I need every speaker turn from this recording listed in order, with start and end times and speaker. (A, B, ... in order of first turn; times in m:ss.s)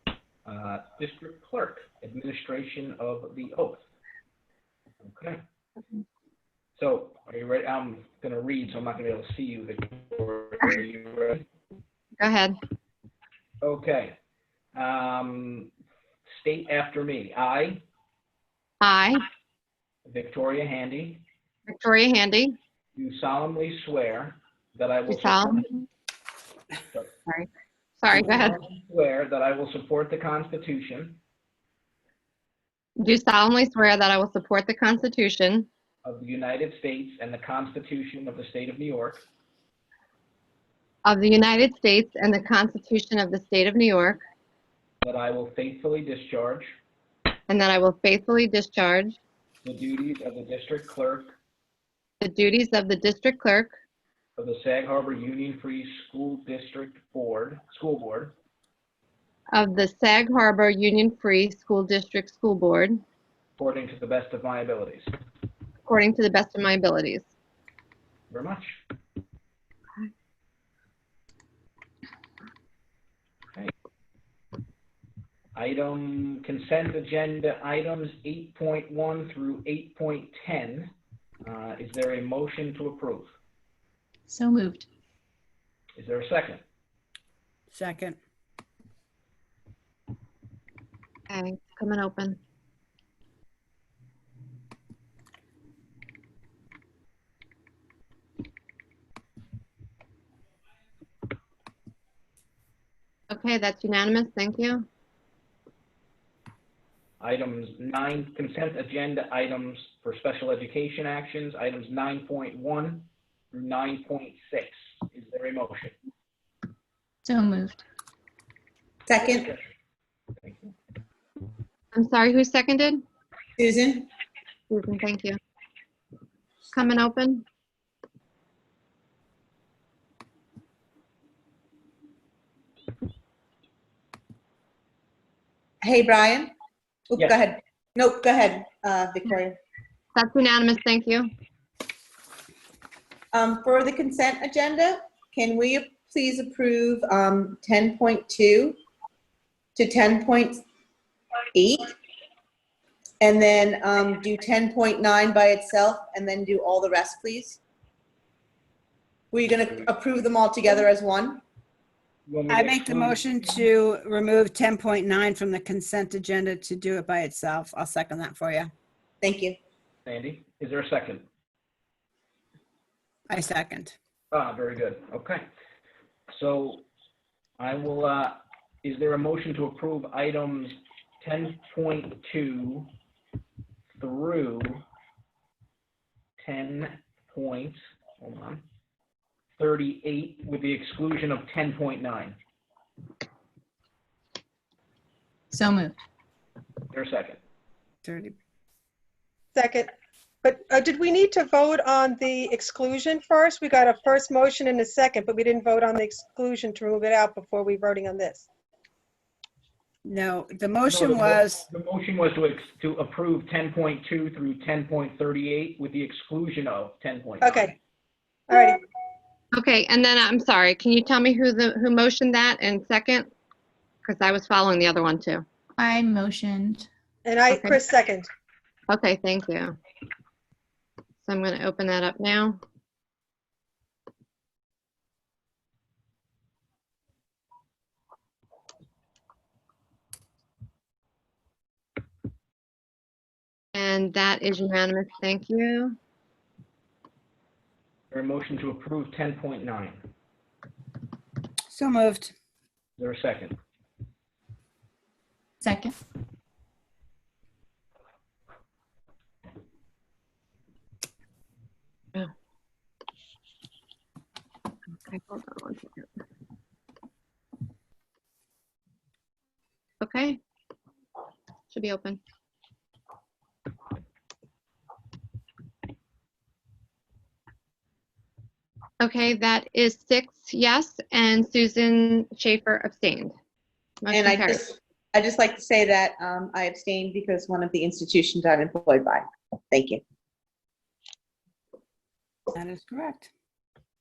0:00.4-0:03.8 A
0:05.0-0:05.4 A
0:06.8-0:11.5 A
0:12.2-0:12.6 B
0:13.6-0:14.2 A
0:14.7-0:15.7 A
0:16.3-0:17.8 A
0:18.8-0:19.2 B
0:20.0-0:21.2 A
0:21.7-0:22.6 B
0:23.0-0:25.7 A
0:25.1-0:25.8 B
0:28.0-0:28.6 B
0:28.1-0:31.2 A
0:33.0-0:35.7 B
0:36.0-0:39.2 A
0:41.0-0:44.2 B
0:45.0-0:46.7 A
0:47.5-0:49.2 B
0:49.6-0:51.4 A
0:52.2-0:53.7 B
0:54.4-0:58.3 A
0:59.5-1:03.0 B
1:03.6-1:05.1 A
1:05.8-1:07.3 B
1:08.3-1:08.8 A
1:15.6-1:20.9 A
1:21.4-1:23.4 A
1:24.3-1:24.9 C
1:26.0-1:26.6 A
1:27.7-1:28.2 D
1:31.3-1:32.4 B
1:43.3-1:44.9 B
1:47.2-1:56.0 A
1:57.2-1:57.8 C
1:59.1-1:59.5 E
2:00.4-2:00.7 A
2:01.9-2:03.0 B
2:03.6-2:04.1 E
2:04.7-2:05.4 B
2:06.7-2:07.4 B
2:15.8-2:16.5 E
2:17.1-2:19.6 E
2:20.2-2:21.3 B
2:23.3-2:28.8 E
2:29.8-2:30.6 E
2:31.5-2:31.9 E
2:33.2-2:37.6 E
2:39.3-2:41.4 E
2:42.3-2:43.2 A
2:42.5-2:48.7 D
2:49.2-2:49.6 E
2:50.0-2:51.3 A
2:53.3-2:54.0 D
2:54.3-2:55.5 A
2:56.3-2:56.9 A
2:57.6-3:02.9 A
3:04.0-3:04.8 A
3:06.4-3:08.6 A
3:09.6-3:12.4 A
3:15.5-3:16.0 C
3:16.9-3:17.4 A
3:18.0-3:18.3 D
3:19.6-3:19.9 F
3:20.4-3:28.5 F
3:30.0-3:31.6 D
3:30.8-3:37.7 A
3:37.4-3:37.8 F
3:38.5-3:38.8 F
3:39.5-3:43.3 B
3:44.0-3:45.4 B
3:45.8-3:46.9 C
3:47.2-3:48.3 F
3:47.5-3:47.8 B
3:48.9-3:49.8 B
3:51.2-3:52.6 B
4:03.7-4:06.0 B
4:08.1-4:10.0 A
4:11.7-4:12.3 D
4:13.0-4:13.6 A
4:15.6-4:16.0 C
4:25.1-4:26.1 B
4:30.0-4:30.4 B
4:31.7-4:32.2 B
4:39.0-4:43.3 B
4:44.0-4:44.7 B
4:44.1-4:50.0 E
4:52.5-4:53.3 D